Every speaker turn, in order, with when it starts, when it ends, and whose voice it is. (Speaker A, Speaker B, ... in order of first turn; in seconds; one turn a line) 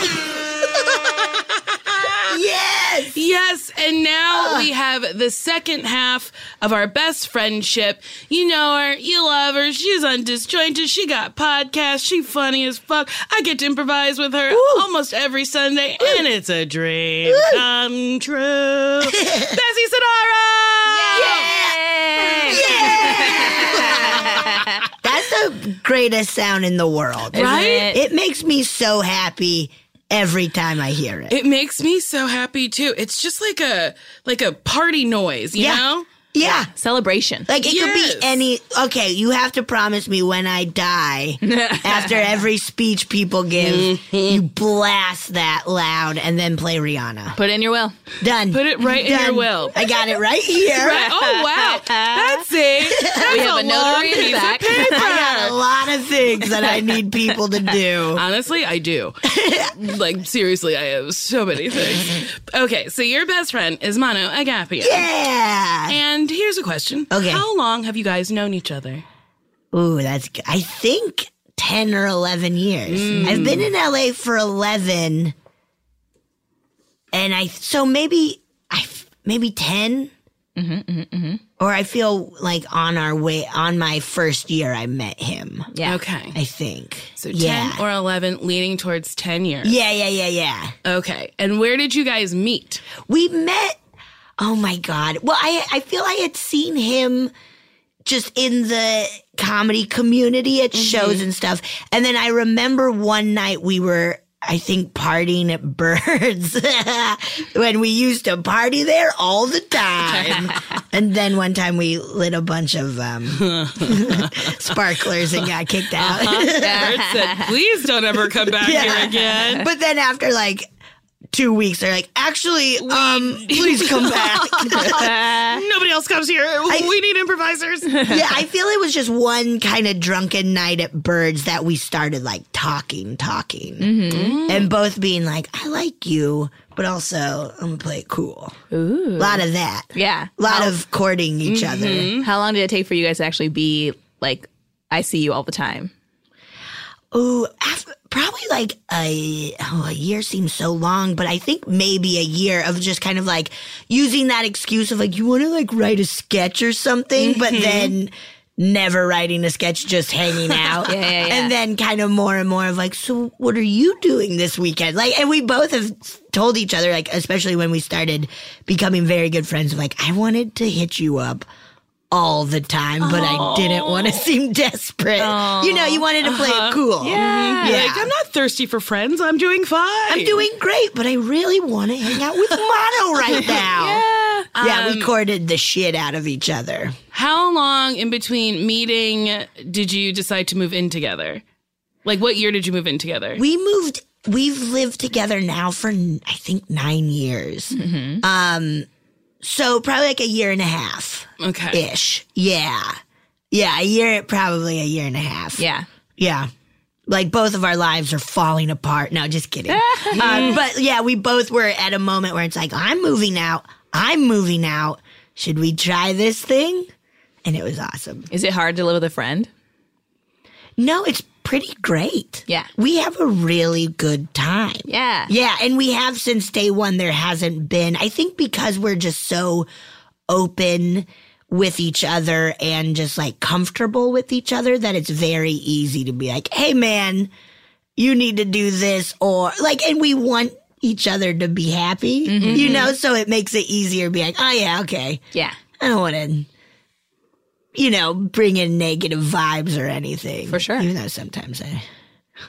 Speaker A: 2.3-3.2
Speaker B: 3.1-21.5
Speaker A: 4.3-4.7
Speaker A: 14.5-14.8
Speaker A: 17.2-17.6
Speaker A: 19.0-19.6
Speaker A: 20.9-31.4
Speaker C: 21.1-24.8
Speaker B: 22.4-24.4
Speaker B: 27.3-27.9
Speaker C: 27.3-28.0
Speaker B: 31.3-36.0
Speaker A: 35.5-36.7
Speaker C: 36.7-37.5
Speaker A: 37.5-47.4
Speaker B: 37.6-38.4
Speaker C: 41.4-42.2
Speaker B: 43.6-44.4
Speaker C: 47.3-48.0
Speaker A: 48.2-51.1
Speaker B: 48.5-49.8
Speaker B: 50.7-55.6
Speaker C: 50.9-52.4
Speaker A: 52.9-53.5
Speaker C: 53.3-55.1
Speaker A: 54.7-58.2
Speaker B: 58.1-65.1
Speaker A: 59.2-59.7
Speaker A: 64.8-66.0
Speaker B: 65.9-69.0
Speaker A: 67.1-67.4
Speaker A: 69.7-75.3
Speaker B: 72.9-73.7
Speaker A: 77.1-80.1
Speaker C: 80.5-81.4
Speaker A: 81.6-85.7
Speaker C: 85.7-86.0
Speaker B: 85.8-86.3
Speaker A: 86.3-87.8
Speaker B: 87.2-89.8
Speaker A: 89.6-90.7
Speaker B: 90.8-92.8
Speaker A: 93.0-93.8
Speaker A: 94.4-97.3
Speaker A: 98.0-117.0
Speaker B: 100.7-101.2
Speaker C: 110.2-110.6
Speaker B: 113.4-114.5
Speaker B: 115.9-119.7
Speaker C: 116.6-117.5
Speaker A: 118.6-120.7
Speaker A: 121.3-125.2
Speaker B: 122.8-128.1
Speaker C: 124.8-125.6
Speaker A: 128.0-138.5
Speaker C: 133.8-134.4
Speaker B: 134.1-134.7
Speaker C: 138.7-140.7
Speaker A: 139.2-142.2
Speaker B: 141.4-142.3
Speaker C: 142.2-145.9
Speaker A: 147.1-171.4
Speaker B: 157.2-157.9
Speaker B: 160.5-160.9
Speaker C: 160.9-161.5
Speaker A: 172.1-178.1
Speaker B: 173.0-174.3
Speaker C: 175.2-176.1
Speaker B: 176.2-180.4
Speaker C: 177.0-177.9
Speaker A: 180.1-184.0
Speaker C: 183.8-184.5
Speaker B: 184.5-185.1
Speaker A: 184.6-186.9
Speaker B: 187.1-191.4
Speaker B: 192.0-193.4
Speaker A: 193.4-198.9
Speaker C: 197.7-198.2
Speaker A: 199.4-203.0
Speaker B: 201.4-201.8
Speaker A: 203.5-205.6
Speaker C: 205.6-205.8
Speaker A: 206.2-206.5
Speaker A: 207.1-216.9
Speaker C: 209.7-210.5
Speaker B: 210.2-210.6
Speaker A: 217.4-218.3
Speaker C: 218.3-219.5
Speaker A: 220.8-229.7
Speaker C: 224.9-225.3
Speaker A: 230.3-237.3
Speaker A: 238.0-245.2
Speaker C: 242.2-242.9
Speaker B: 242.4-242.9
Speaker A: 245.8-246.5
Speaker A: 247.7-251.8
Speaker C: 250.5-250.9